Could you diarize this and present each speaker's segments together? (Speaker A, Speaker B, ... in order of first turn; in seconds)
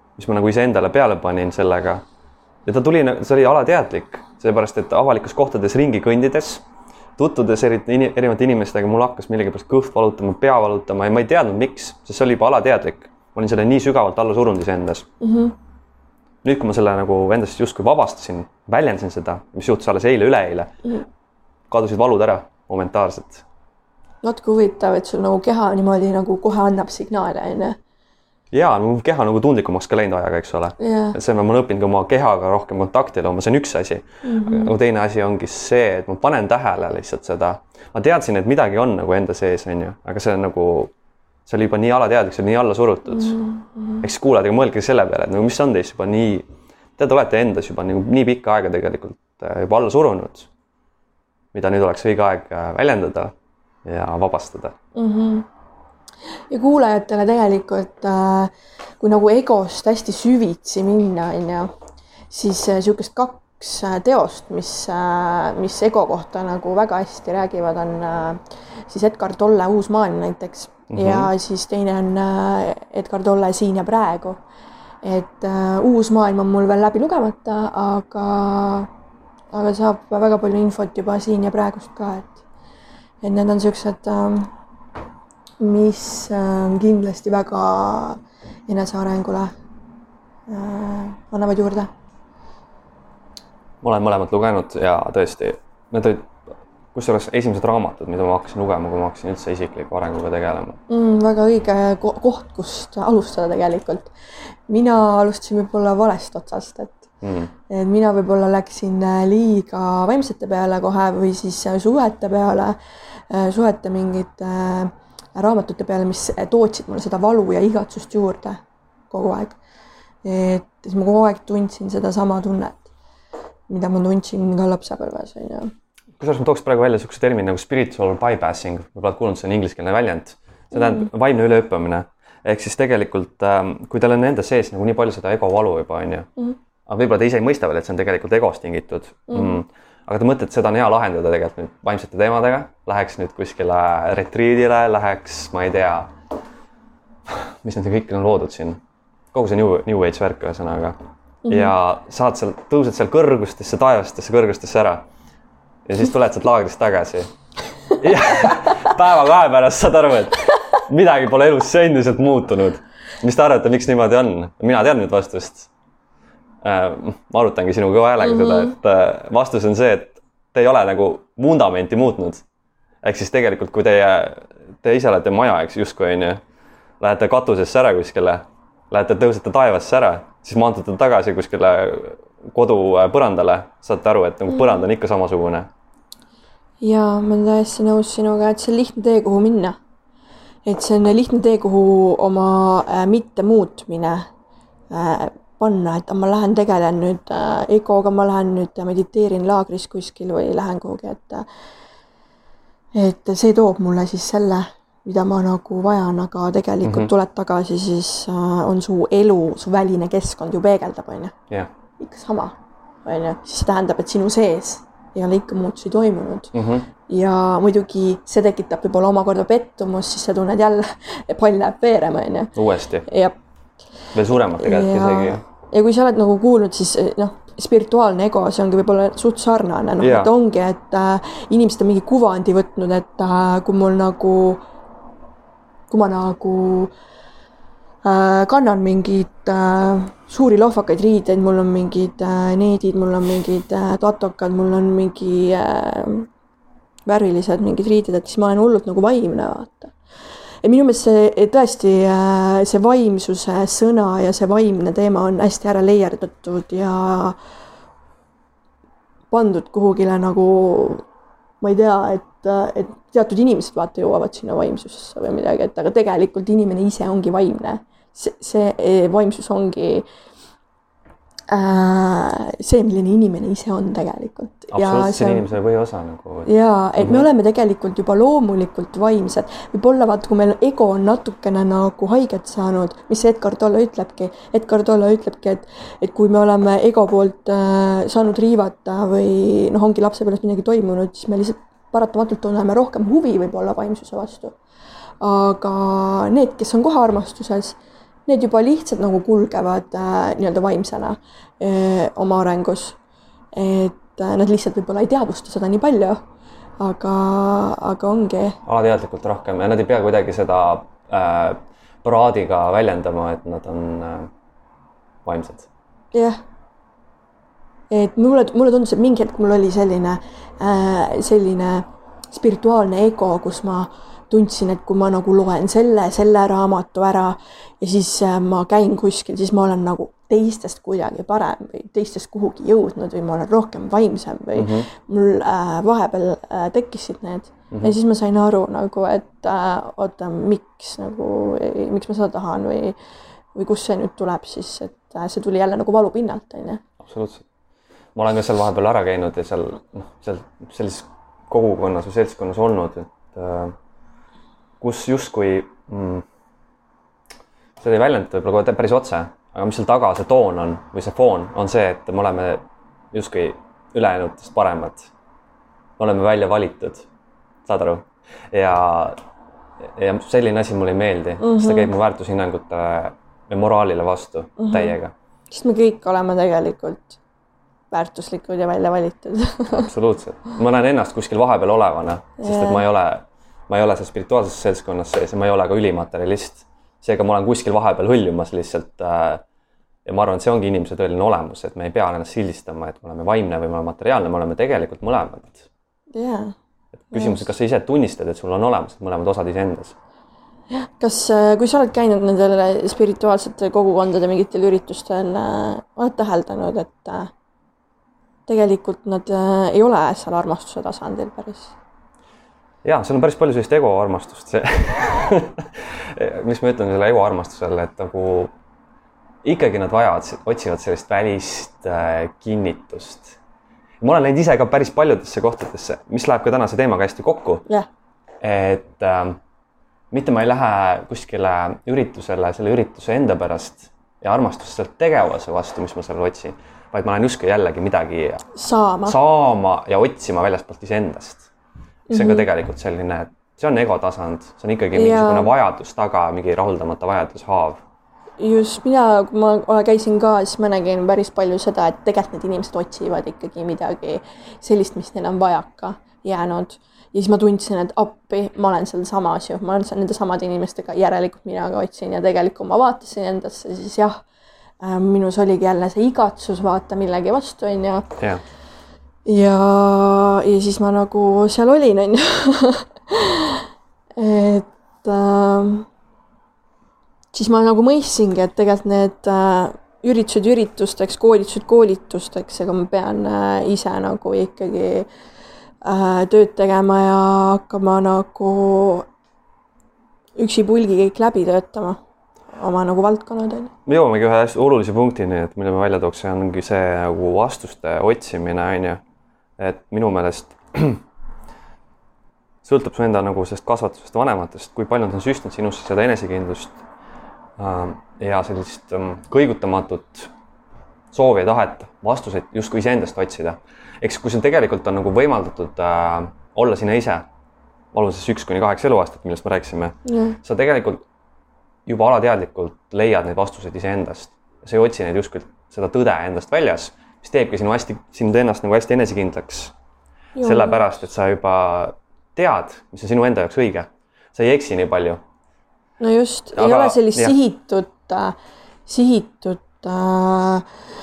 Speaker A: 0.2-2.0, 2.6-6.6, 7.2-15.1, 16.4-20.7, 21.7-23.4, 28.5-40.9, 41.5-43.4, 44.0-50.5, 51.5-53.3, 53.8-54.7, 70.9-71.3, 93.8-96.3, 96.9-100.8, 107.2-107.5, 126.2-136.3, 136.9-146.1, 147.3-148.8, 149.3-150.9, 151.5-155.0, 155.8-157.3, 157.9-165.7, 166.6-172.4, 173.0-176.4, 177.0-185.7, 206.8-207.1, 216.5-216.9, 222.6-223.1, 224.1-225.4, 230.0-230.3, 274.7-277.3, 308.6-314.3, 315.2-315.7, 334.6-334.9, 337.7-337.9, 347.0-347.4, 348.1-353.7, 354.8-356.2, 357.8-365.1, 366.0-367.1, 367.6-369.2, 369.9-375.1, 379.7-389.4, 390.1-395.7, 397.1-399.9, 412.8-418.5, 419.4-423.4, 424.0-427.6, 428.4-429.4, 430.1-438.4, 439.1-441.5, 442.1-447.8, 493.9-499.0, 499.6-501.0, 502.6-506.8, 507.6-510.3, 511.1-517.2, 517.9-521.0, 521.9-529.7, 530.4-535.2, 536.5-537.4
Speaker B: 15.2-15.5, 24.2-27.8, 30.8-31.2, 34.2-34.7, 43.1-44.0, 54.9-55.5, 56.5-61.7, 62.3-74.4, 75.0-78.9, 79.5-82.4, 83.2-84.5, 85.6-89.5, 90.5-91.9, 100.9-104.1, 104.7-107.1, 107.7-112.8, 113.3-119.6, 120.2-122.9, 123.7-125.7, 130.7-131.1, 139.3-139.6, 151.4-151.7, 168.2-168.7, 186.8-189.8, 190.6-194.3, 194.9-201.4, 202.9-211.3, 212.0-223.3, 224.5-234.6, 235.9-236.9, 238.0-246.3, 247.1-249.9, 250.6-257.4, 259.3-261.0, 261.6-270.1, 271.5-275.5, 276.4-294.6, 295.2-303.0, 303.5-306.2, 306.8-308.6, 316.1-316.4, 317.9-343.0, 343.5-346.8, 371.4-371.9, 374.6-375.0, 375.5-377.2, 377.9-379.9, 382.4-382.8, 396.1-396.5, 397.1-397.5, 400.7-407.3, 408.5-411.7, 438.5-439.1, 442.1-442.4, 444.9-445.5, 448.4-464.2, 464.8-468.1, 469.2-475.9, 477.3-485.1, 485.8-489.1, 490.4-492.0, 492.5-493.7, 520.0-520.4, 530.4-530.8, 536.0-540.7